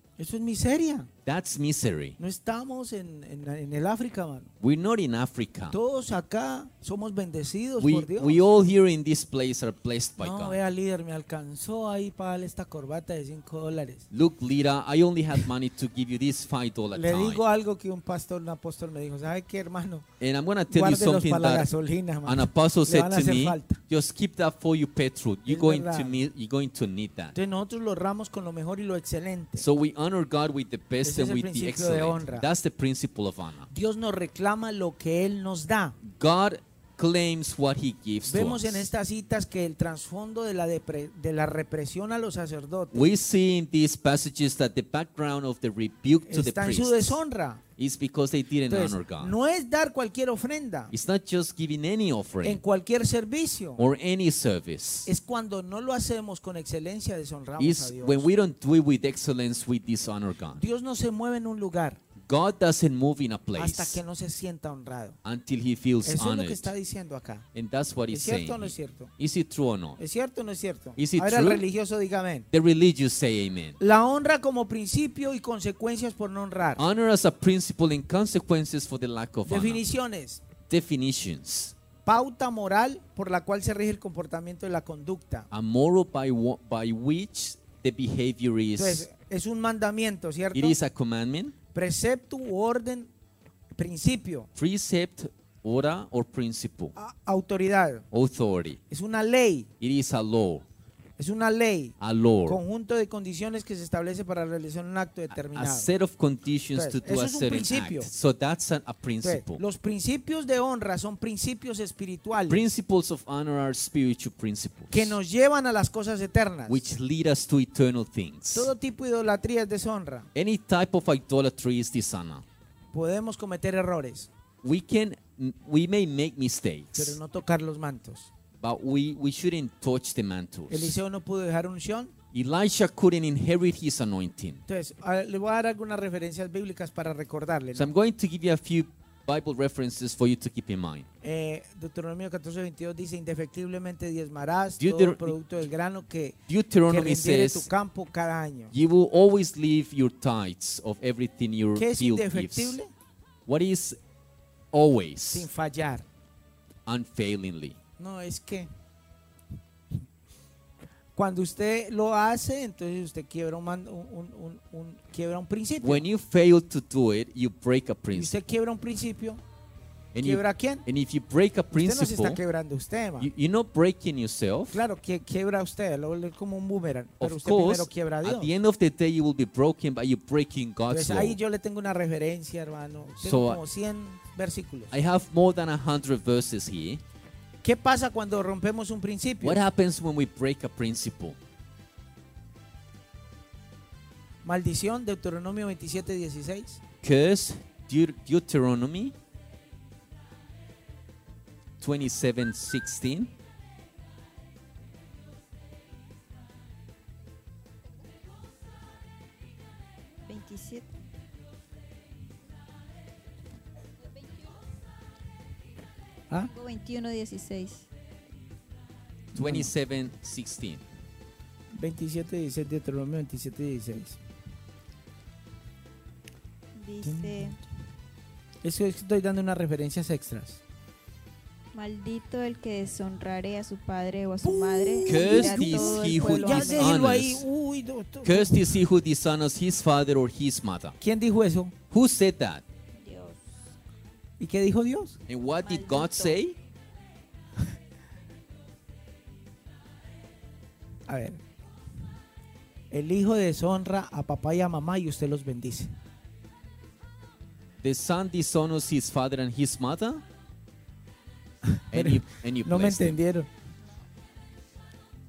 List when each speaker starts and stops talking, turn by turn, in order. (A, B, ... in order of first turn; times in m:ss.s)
0:00.2-0:01.1 A
0:01.3-0:02.2 B
0:02.2-0:04.5 A
0:04.6-0:05.8 B
0:05.7-0:08.4 A
0:07.8-0:10.6 B
0:10.2-0:14.1 A
0:14.1-0:17.4 B
0:16.9-0:20.1 A
0:20.2-0:21.7 B
0:20.7-0:23.8 A
0:22.2-0:27.4 B
0:25.5-0:26.2 A
0:27.3-0:29.7 A
0:29.6-0:33.7 B
0:31.0-0:32.5 A
0:33.7-0:36.0 A
0:36.0-0:38.9 B
0:38.3-0:43.0 A
0:42.9-0:47.2 B
0:46.3-0:47.6 A
0:47.8-0:49.4 B
0:48.7-0:50.9 A
0:50.9-0:52.6 B
0:52.4-0:53.8 A
0:53.8-0:55.1 B
0:55.0-0:58.3 A
0:57.6-1:00.6 B
1:00.6-1:02.0 A
1:02.2-1:04.0 B
1:03.6-1:05.2 A
1:05.2-1:06.7 B
1:06.0-1:07.5 A
1:07.5-1:10.0 B
1:08.1-1:09.1 A
1:10.0-1:12.5 A
1:11.0-1:11.6 B
1:12.5-1:13.8 B
1:13.8-1:16.8 A
1:16.8-1:19.8 B
1:19.5-1:20.4 A
1:20.7-1:21.8 B
1:22.0-1:25.5 A
1:25.5-1:29.1 B
1:28.8-1:30.8 A
1:30.5-1:31.6 B
1:31.7-1:33.1 A
1:33.7-1:34.5 A
1:34.6-1:37.0 B
1:37.0-1:38.1 A
1:38.1-1:38.8 B
1:38.9-1:39.7 A
1:39.8-1:40.6 B
1:41.2-1:45.9 A
1:42.0-1:42.6 B
1:45.3-1:49.6 B
1:46.7-1:48.1 A
1:49.2-1:52.7 A
1:52.5-1:55.2 B
1:54.9-1:56.9 A
1:56.7-1:58.7 B
1:58.5-2:00.3 A
2:00.3-2:02.4 B
2:02.9-2:04.3 A
2:04.6-2:07.2 B
2:06.9-2:08.3 A
2:08.6-2:11.0 B
2:10.7-2:12.1 A
2:12.3-2:14.6 B
2:14.7-2:17.9 A
2:17.8-2:21.1 B
2:21.2-2:28.7 A
2:24.8-2:25.4 B
2:26.5-2:27.7 B
2:28.7-2:32.8 B
2:31.8-2:32.9 A
2:33.5-2:34.0 B
2:34.7-2:35.5 B
2:35.3-2:36.0 A
2:36.9-2:37.8 B
2:38.0-2:38.7 A
2:41.2-2:46.0 A
2:45.8-2:48.4 B
2:48.1-2:49.4 A
2:50.1-2:52.4 B
2:50.2-2:50.8 A
2:51.8-2:53.3 A
2:53.2-2:54.8 B
2:54.7-2:58.5 A
2:57.2-3:01.4 B
3:00.9-3:04.9 A
3:03.2-3:03.6 B
3:04.9-3:07.0 B
3:07.6-3:09.6 A
3:09.4-3:11.4 B
3:14.4-3:16.8 A
3:17.0-3:19.2 B
3:21.8-3:23.3 B
3:30.3-3:30.9 C
3:36.5-3:37.9 C
3:39.3-3:39.7 A
3:39.4-3:40.8 B
3:41.8-3:44.2 A
3:46.8-3:47.6 C
3:47.0-3:47.6 A
3:48.6-3:50.6 A
3:51.7-3:57.0 C
3:54.4-3:58.8 A
3:55.1-3:57.5 B
3:58.2-4:01.0 B
4:01.0-4:01.8 A
4:01.9-4:02.6 B
4:03.0-4:03.4 C
4:04.4-4:05.2 A
4:05.3-4:06.6 B
4:05.6-4:06.4 C
4:11.1-4:11.4 A
4:12.9-4:15.9 A
4:17.8-4:20.2 B
4:21.7-4:23.5 A
4:21.9-4:23.2 B